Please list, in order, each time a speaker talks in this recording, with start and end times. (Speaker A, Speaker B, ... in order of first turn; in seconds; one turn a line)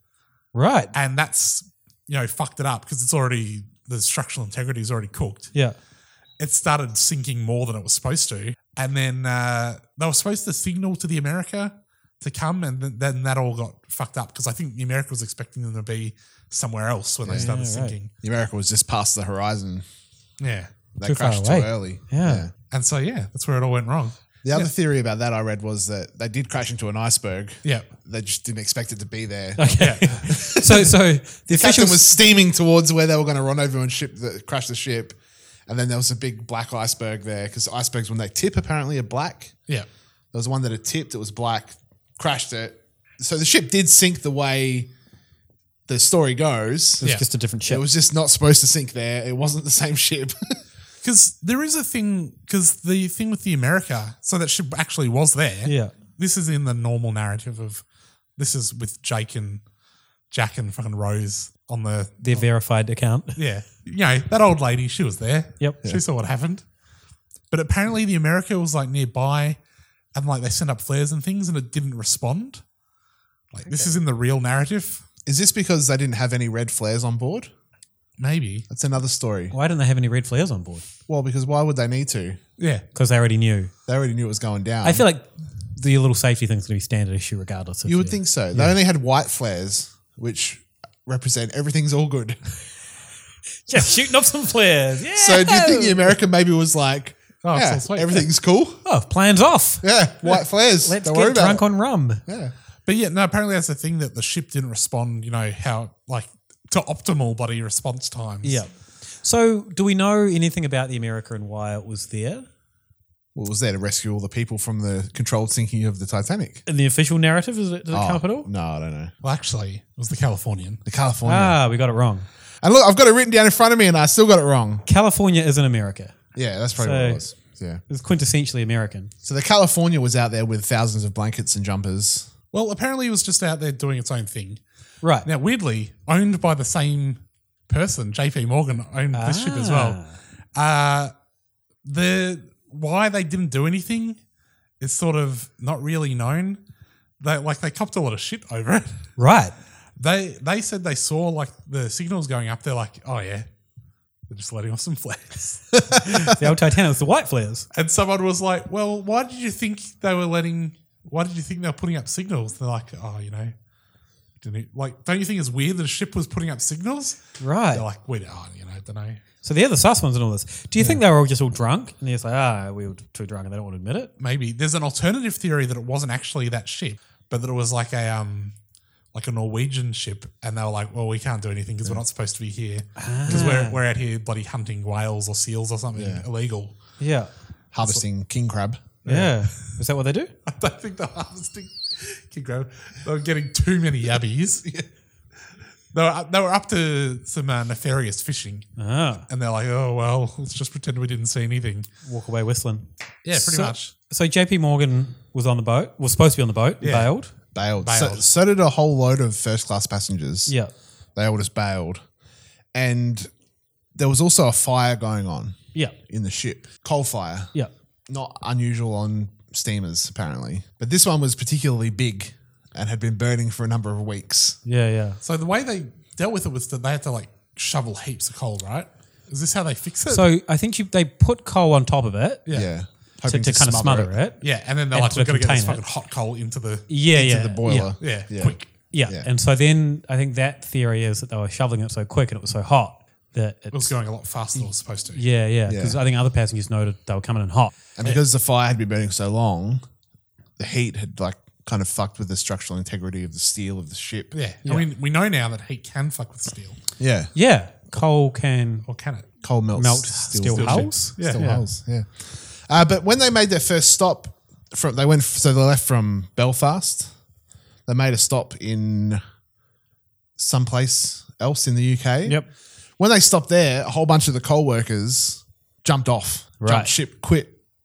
Speaker A: 0.5-0.9
Speaker B: 0.9-5.5
Speaker B: 6.4-18.1
Speaker C: 17.2-17.5
Speaker A: 17.3-18.0
Speaker C: 18.2-19.9
Speaker B: 20.4-20.7
Speaker C: 20.9-22.5
Speaker A: 21.0-22.5
Speaker B: 22.7-24.7
Speaker C: 24.4-30.9
Speaker A: 29.6-32.1
Speaker B: 29.8-30.2
Speaker C: 31.5-39.6
Speaker C: 40.3-44.9
Speaker C: 45.9-47.0
Speaker A: 47.0-47.9
Speaker C: 47.7-50.6
Speaker B: 51.0-57.8
Speaker A: 55.6-55.9
Speaker B: 58.4-59.6
Speaker B: 60.3-62.5
Speaker A: 62.2-63.4
Speaker B: 63.4-66.6
Speaker B: 67.5-69.6
Speaker B: 70.1-72.6
Speaker B: 73.5-75.0
Speaker C: 75.3-77.5
Speaker B: 78.2-78.7
Speaker C: 78.7-79.5
Speaker A: 79.5-80.9
Speaker C: 81.1-82.4
Speaker B: 82.6-82.8
Speaker A: 82.9-83.7
Speaker C: 83.9-85.0
Speaker A: 84.8-88.7
Speaker C: 87.9-92.4
Speaker A: 93.7-96.1
Speaker C: 95.1-98.8
Speaker B: 97.4-98.3
Speaker A: 98.8-102.2
Speaker C: 99.8-102.5
Speaker B: 102.9-108.6
Speaker A: 108.4-112.5
Speaker C: 113.3-116.6
Speaker A: 116.7-118.5
Speaker C: 117.9-119.1
Speaker B: 119.2-120.8
Speaker C: 120.9-121.6
Speaker A: 121.2-122.3
Speaker C: 122.6-124.8
Speaker A: 124.9-126.1
Speaker C: 126.3-127.8
Speaker A: 126.8-127.3
Speaker A: 127.9-129.1
Speaker C: 129.2-132.3
Speaker B: 132.5-134.6
Speaker A: 135.0-135.3
Speaker B: 135.2-140.0
Speaker A: 139.1-140.1
Speaker B: 140.6-141.1
Speaker B: 141.8-144.2
Speaker B: 144.8-146.6
Speaker B: 147.2-149.0
Speaker A: 149.2-149.6
Speaker B: 150.0-153.5
Speaker B: 154.3-155.8
Speaker A: 156.0-157.7
Speaker B: 157.7-163.5
Speaker B: 164.4-167.2
Speaker A: 167.4-167.8
Speaker B: 167.7-169.2
Speaker A: 169.4-174.1
Speaker B: 174.2-178.6
Speaker B: 179.1-186.7
Speaker A: 183.0-183.8
Speaker C: 185.9-186.2
Speaker A: 187.0-187.3
Speaker C: 187.7-188.9
Speaker B: 189.0-189.6
Speaker A: 189.1-190.3
Speaker B: 190.5-194.7
Speaker B: 195.9-198.7
Speaker A: 198.8-199.2
Speaker B: 199.3-201.9
Speaker A: 202.1-207.3
Speaker B: 203.2-203.9
Speaker B: 206.8-207.1
Speaker C: 207.6-210.5
Speaker B: 207.8-208.2
Speaker C: 211.2-212.0
Speaker C: 212.7-213.3
Speaker C: 213.9-217.5
Speaker C: 218.1-224.6
Speaker A: 224.7-225.2
Speaker B: 225.2-230.3
Speaker A: 230.1-232.5
Speaker B: 232.5-232.7
Speaker C: 232.5-234.2
Speaker A: 233.2-235.8
Speaker B: 234.4-236.9
Speaker A: 236.9-238.1
Speaker C: 237.1-239.3
Speaker B: 238.0-238.7
Speaker A: 238.9-243.9
Speaker B: 243.7-245.2
Speaker A: 244.6-247.8
Speaker C: 245.7-246.0
Speaker C: 248.0-249.8
Speaker C: 250.6-254.3
Speaker B: 254.3-256.8
Speaker C: 257.0-257.3
Speaker A: 257.4-258.9
Speaker B: 258.9-259.3
Speaker C: 259.4-267.1
Speaker A: 259.8-261.6
Speaker B: 260.4-261.4
Speaker C: 267.9-269.2
Speaker C: 270.4-272.4
Speaker C: 273.0-277.6
Speaker A: 276.6-276.9